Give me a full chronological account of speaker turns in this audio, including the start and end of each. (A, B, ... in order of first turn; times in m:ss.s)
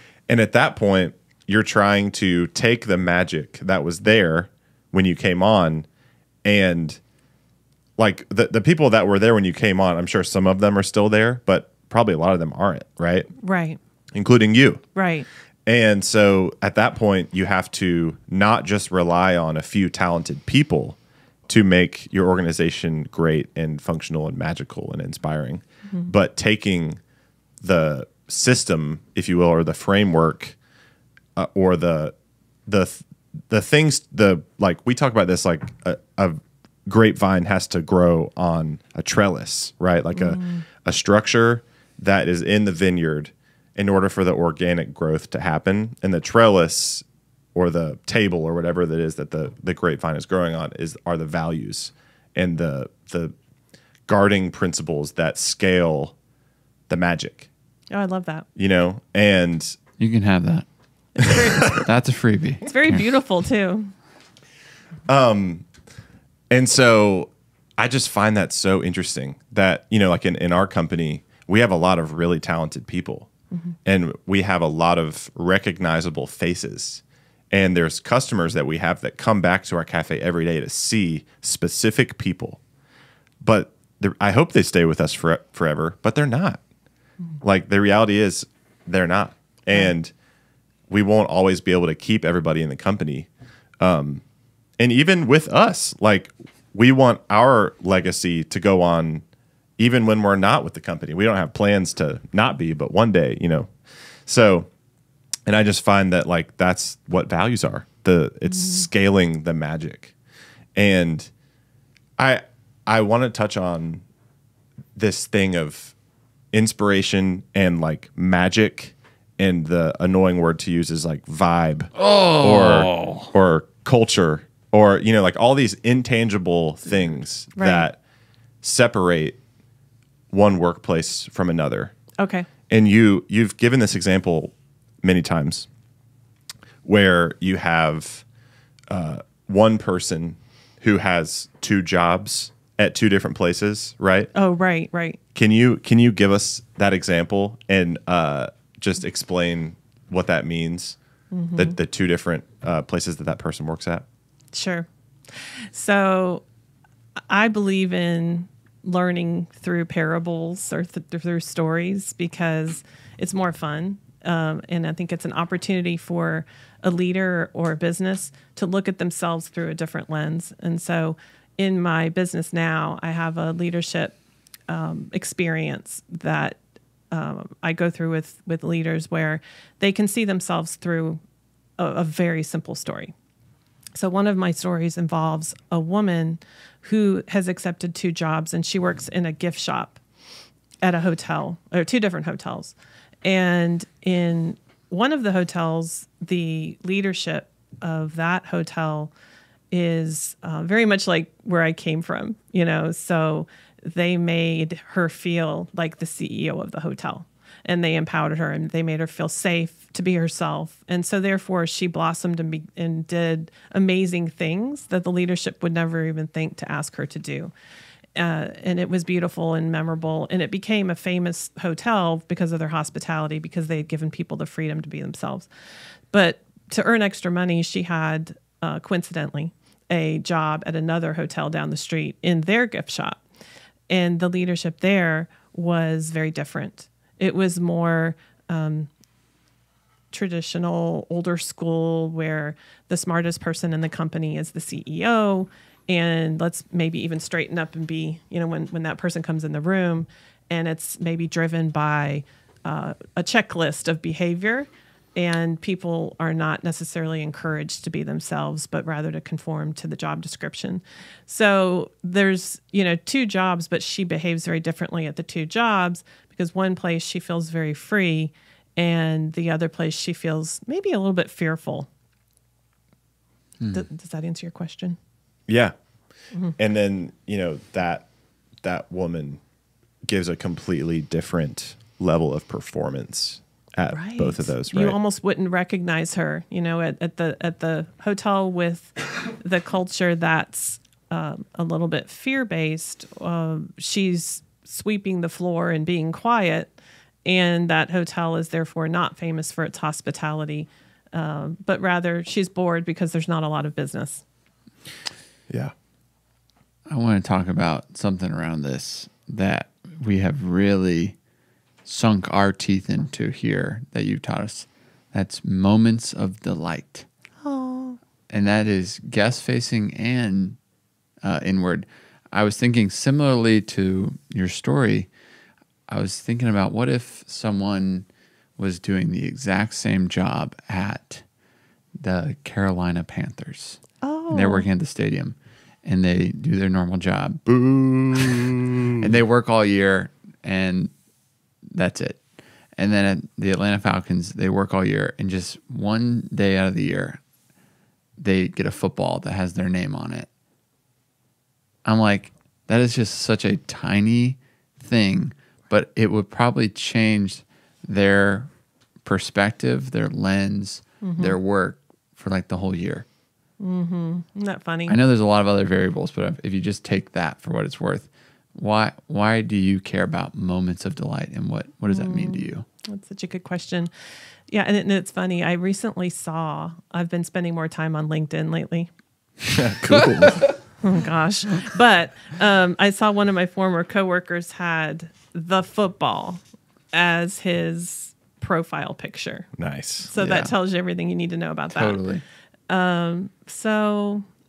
0:00.3-0:05.9 A
0:06.4-0:07.0 A
0:08.0-0:13.3 A
0:13.4-0:13.8 B
0:14.1-0:14.8 A
0:15.0-0:15.3 B
0:15.7-0:27.0 A
0:27.6-0:30.6 A
0:31.4-0:32.1 A
0:32.7-0:53.3 A
0:40.1-0:40.6 B
0:54.1-0:56.2 A
0:56.9-0:57.5 A
0:57.9-0:58.5 B
0:58.6-0:59.8 A
1:00.0-1:00.7 C
1:01.2-1:01.7 B
1:01.2-1:01.8 A
1:01.7-1:03.0 C
1:02.6-1:03.9 B
1:05.1-1:05.7 A
1:06.5-1:13.3 A
1:13.9-1:22.6 A
1:23.4-1:26.6 A
1:27.4-1:30.1 A
1:30.9-1:33.3 A
1:33.8-1:34.2 A
1:34.8-1:39.2 A
1:39.8-1:43.7 A
1:44.3-1:44.7 A
1:45.5-1:50.1 A
1:50.8-1:51.3 A
1:52.2-1:54.0 A
1:55.0-1:55.9 A
1:56.5-2:08.0 A
2:02.0-2:03.3 C
2:07.6-2:07.9 B
2:08.6-2:09.4 A
2:10.3-2:11.9 A
2:12.2-2:12.5 B
2:12.7-2:15.7 A
2:16.8-2:18.2 A
2:18.9-2:24.3 A
2:24.3-2:25.2 B
2:25.4-2:31.0 A
2:31.3-2:31.8 B
2:31.6-2:34.0 A
2:34.5-2:36.4 B
2:37.3-2:54.2 B
2:54.7-2:56.6 B
2:57.1-3:01.2 B
3:01.8-3:03.1 B
3:04.0-3:10.0 B
3:10.8-3:19.1 B
3:19.7-3:37.5 B
3:38.2-3:45.5 B
3:46.1-3:53.2 B
3:53.9-3:58.9 B
4:00.1-4:31.9 B
4:33.7-4:35.0 B
4:35.5-4:35.8 A
4:36.6-4:38.1 A
4:38.6-4:39.4 A
4:40.1-4:45.0 A
4:43.9-4:56.7 B
4:57.2-5:04.2 B
5:06.9-5:11.2 C
5:11.8-5:17.1 C
5:17.4-5:18.0 B
5:18.3-5:20.6 C
5:21.2-5:25.1 C
5:25.9-5:28.1 C
5:28.6-5:31.2 C
5:32.0-5:37.5 C
5:34.0-5:34.7 B
5:37.5-5:39.0 A
5:39.0-5:40.9 C
5:41.7-5:42.2 C
5:42.8-5:47.2 C
5:48.2-5:50.3 C
5:51.8-5:58.5 C
5:59.0-6:03.1 C
6:01.0-6:01.4 B
6:03.6-6:05.0 B
6:04.9-6:12.7 C
6:11.9-6:13.9 B
6:14.5-6:18.9 B
6:19.5-6:20.5 A
6:19.9-6:20.3 C
6:20.8-6:26.4 B
6:26.9-6:29.5 B
6:29.6-6:30.1 A
6:30.1-6:32.0 B
6:30.2-6:30.5 C
6:31.7-6:32.2 C
6:32.7-6:34.2 B